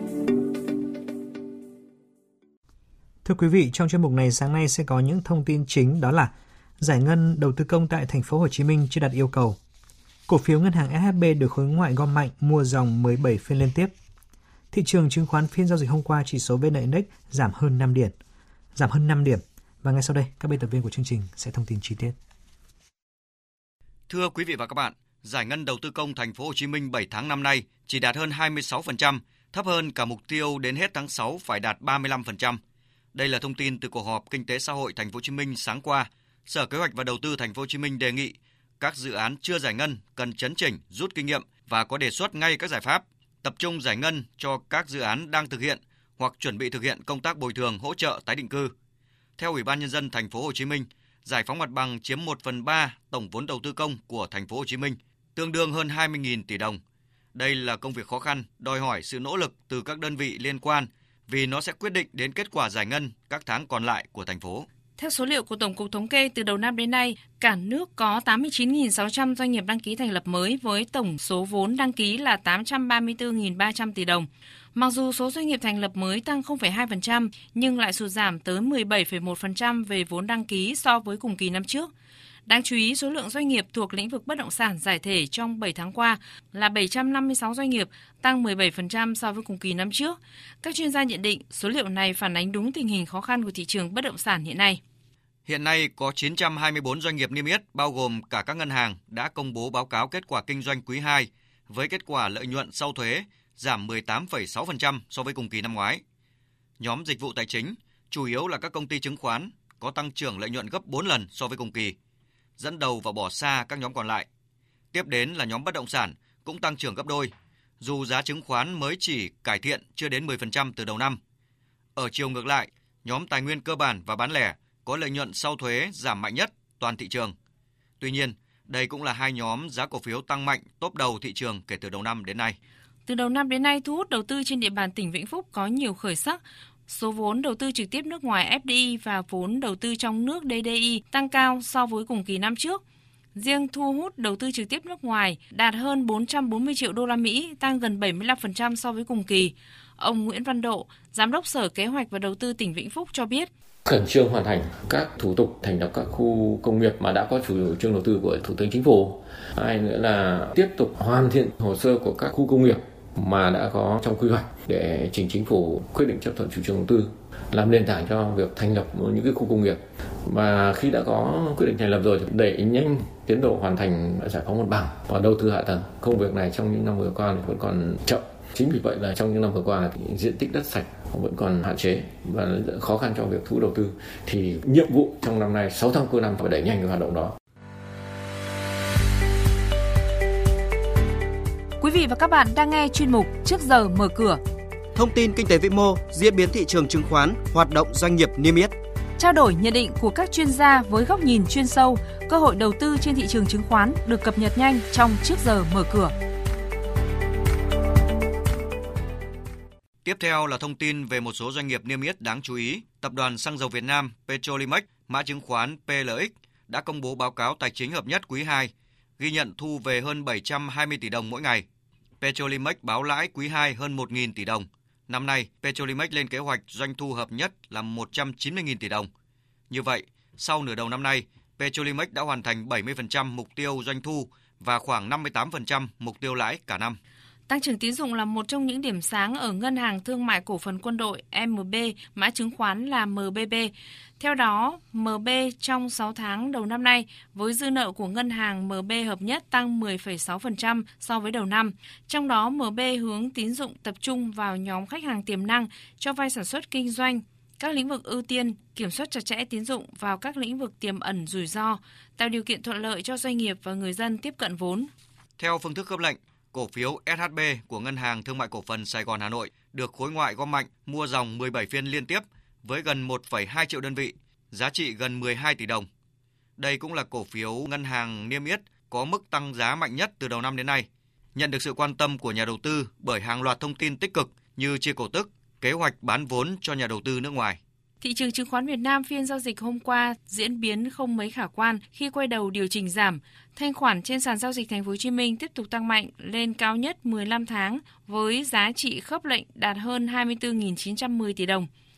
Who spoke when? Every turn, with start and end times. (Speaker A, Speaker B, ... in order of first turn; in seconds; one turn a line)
Speaker A: 3.2-9.6
Speaker A: 10.3-13.9
Speaker A: 14.7-18.1
Speaker A: 18.7-22.1
Speaker B: 24.1-32.6
Speaker B: 33.1-48.7
Speaker B: 49.4-56.8
Speaker B: 57.3-64.7
Speaker C: 65.0-81.9
Speaker C: 82.5-94.8
Speaker B: 95.5-106.0
Speaker B: 106.8-111.9
Speaker B: 112.6-114.3
Speaker B: 114.9-121.2
Speaker B: 122.0-127.3
Speaker B: 128.0-132.6
Speaker C: 133.1-142.8
Speaker C: 143.3-153.5
Speaker D: 153.8-187.3
Speaker C: 191.8-194.4
Speaker E: 195.0-198.7
Speaker C: 199.2-206.1
Speaker B: 210.0-221.6
Speaker B: 222.2-229.1
Speaker B: 229.7-237.0
Speaker C: 237.5-264.9
Speaker B: 265.4-275.9
Speaker B: 276.6-287.6
Speaker C: 288.0-301.7